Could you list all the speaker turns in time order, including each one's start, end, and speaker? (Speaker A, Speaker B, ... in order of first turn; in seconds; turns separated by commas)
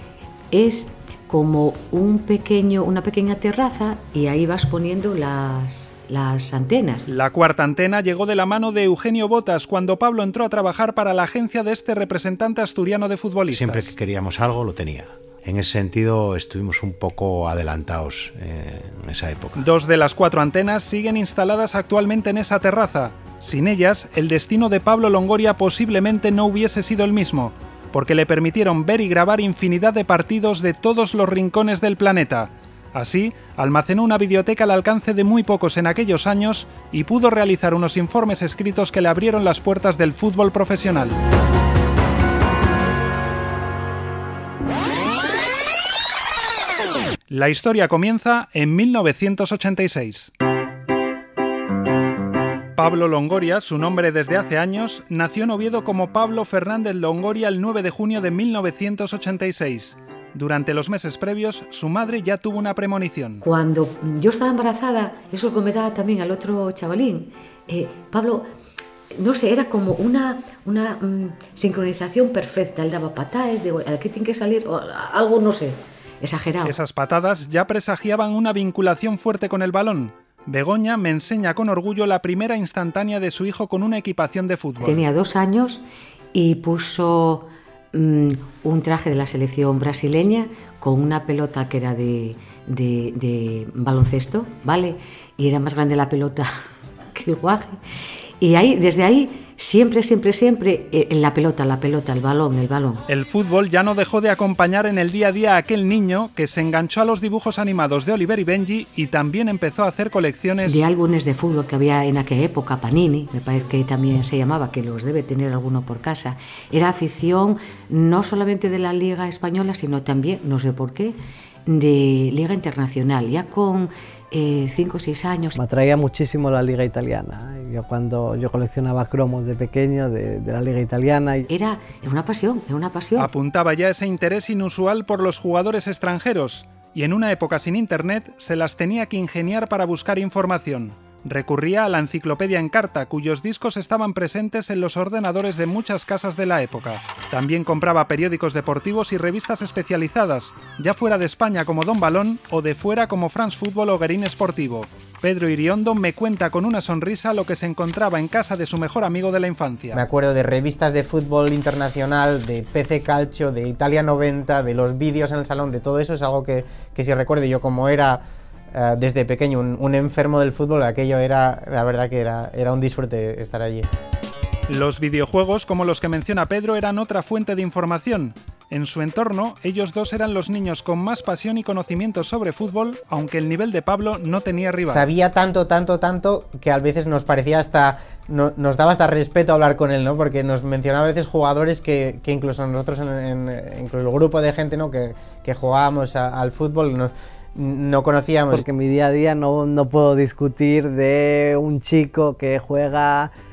Speaker A: 0.5-7.1, Speaker B: 7.1-13.9, Speaker C: 13.5-19.6, Speaker B: 19.6-41.2, Speaker B: 47.3-50.3, Speaker B: 52.8-63.4, Speaker A: 63.4-68.5, Speaker A: 69.1-76.7, Speaker B: 76.6-85.0, Speaker A: 84.8-85.8, Speaker A: 86.3-96.5, Speaker A: 97.1-97.8, Speaker A: 98.4-103.0, Speaker B: 103.1-110.8, Speaker A: 110.6-125.5, Speaker D: 125.5-131.5, Speaker A: 131.5-133.3, Speaker B: 133.2-160.0, Speaker E: 159.9-173.9, Speaker B: 174.7-185.1, Speaker E: 184.9-198.6, Speaker D: 198.5-203.3